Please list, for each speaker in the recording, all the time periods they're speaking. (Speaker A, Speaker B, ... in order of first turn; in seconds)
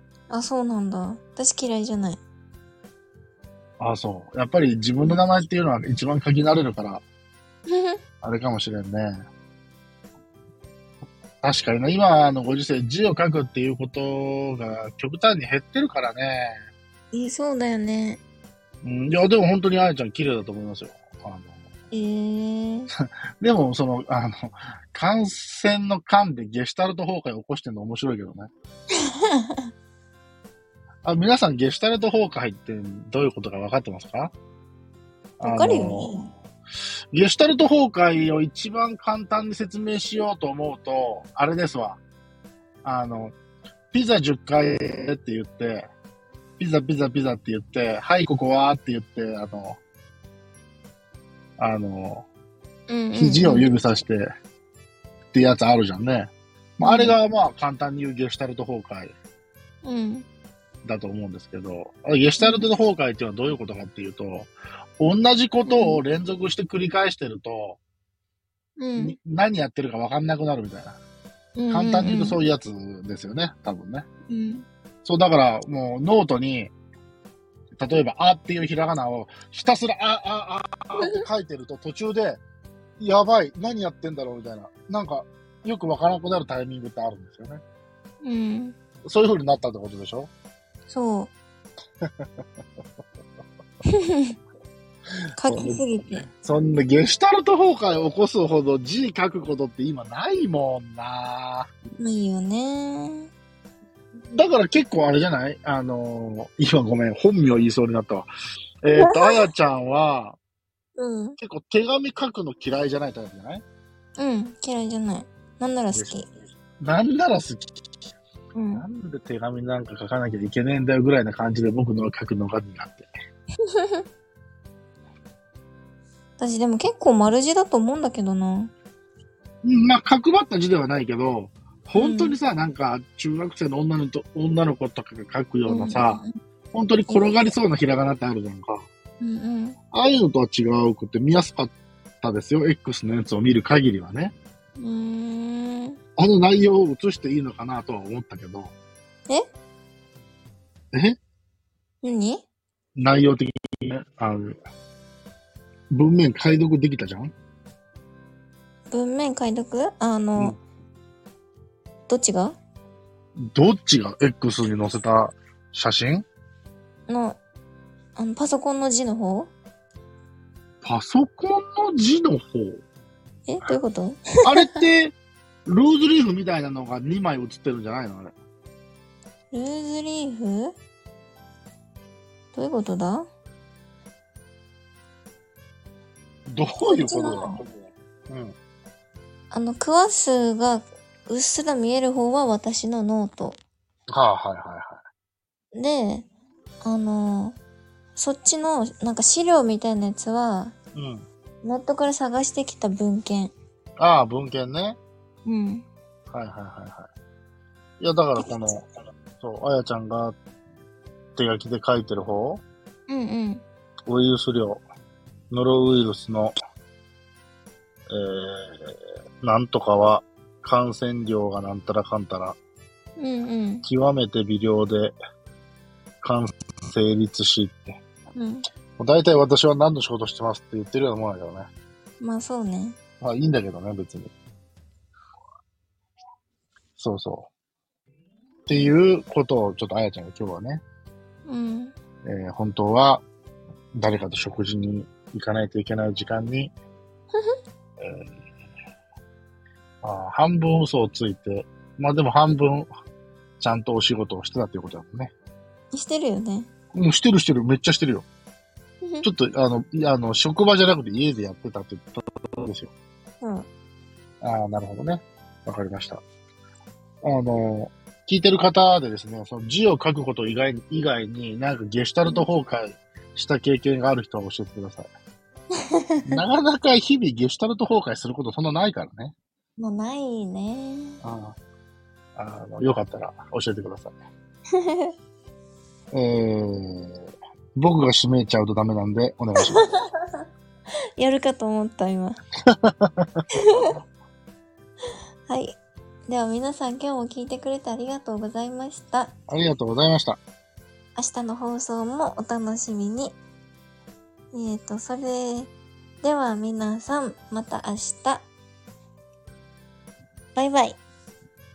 Speaker A: 0.3-2.2, 7.7-8.0, 17.1-18.2, 21.9-22.9, 29.1-29.7, 35.4-36.3, 52.9-53.7, 56.8-57.1, 59.8-60.2, 62.4-62.7, 65.7-66.0, 68.8-69.1, 71.6-72.4, 74.3-74.6, 81.0-81.2, 88.2-88.8, 90.9-91.3, 93.9-94.3, 95.4-96.3, 102.0-103.3, 108.9-109.5, 111.0-111.4, 114.2-116.3, 118.5-118.8, 123.7-124.0, 126.4-128.7, 131.9-132.4, 135.7-136.4, 137.1-137.4, 139.2-139.8, 144.8-146.0, 152.0-152.4, 158.9-160.6, 162.1-162.6, 167.1-167.4, 168.2-169.5, 173.5-174.8, 179.5-180.7, 182.5-183.3, 186.8-187.6, 189.5-193.6, 195.7-196.3, 196.8-197.6, 198.2-200.7, 201.6-203.5, 205.4-205.8, 208.4-208.7, 213.1-213.6, 223.2-223.8, 228.3-228.6, 232.2-233.0, 241.4-241.9, 255.9-256.7, 263.4-263.7, 272.2-272.5, 275.9-276.4, 279.8-281.2, 284.8-285.1, 289.6-290.4, 291.2-292.4, 295.5-295.7, 296.3-299.3, 301.1-303.4, 304.5-305.7, 306.2-308.5, 310.5-311.0
Speaker B: 3.8-7.0, 8.2-9.1, 11.4-16.6, 18.8-21.6, 23.0-28.5, 31.0-34.3, 35.4-36.3, 37.1-42.0, 42.8-43.3, 43.9-45.9, 46.6-49.8, 51.6-52.3, 53.1-54.3, 55.3-59.1, 60.8-67.8, 69.0-71.0, 71.7-74.1, 75.0-76.7, 77.7-82.4, 83.0-87.6, 89.0-90.3, 95.4-101.7, 104.3-108.3, 108.8-110.4, 111.4-113.6, 115.9-116.2, 116.8-117.8, 118.7-123.1, 129.6-136.2, 136.7-138.8, 139.9-144.3, 146.2-148.7, 150.9-151.2, 152.9-154.6, 155.9-157.3, 163.4-166.2, 170.8-172.8, 174.4-178.3, 186.4-188.6, 194.1-195.0, 200.9-201.3, 204.0-205.0, 206.3-207.1, 208.0-208.9, 209.4-210.4, 211.3-212.6, 214.1-214.8, 215.5-216.5, 218.1-222.6, 223.8-225.2, 226.2-228.0, 229.0-231.7, 233.2-234.3, 237.0-237.5, 238.7-240.8, 242.2-243.2, 243.9-246.7, 248.0-248.3, 250.0-252.9, 253.6-255.3, 256.9-258.2, 259.2-262.9, 264.4-266.2, 267.2-275.1, 276.2-279.3, 281.2-281.6, 282.4-284.1, 286.1-289.8, 292.7-293.3, 299.5-300.4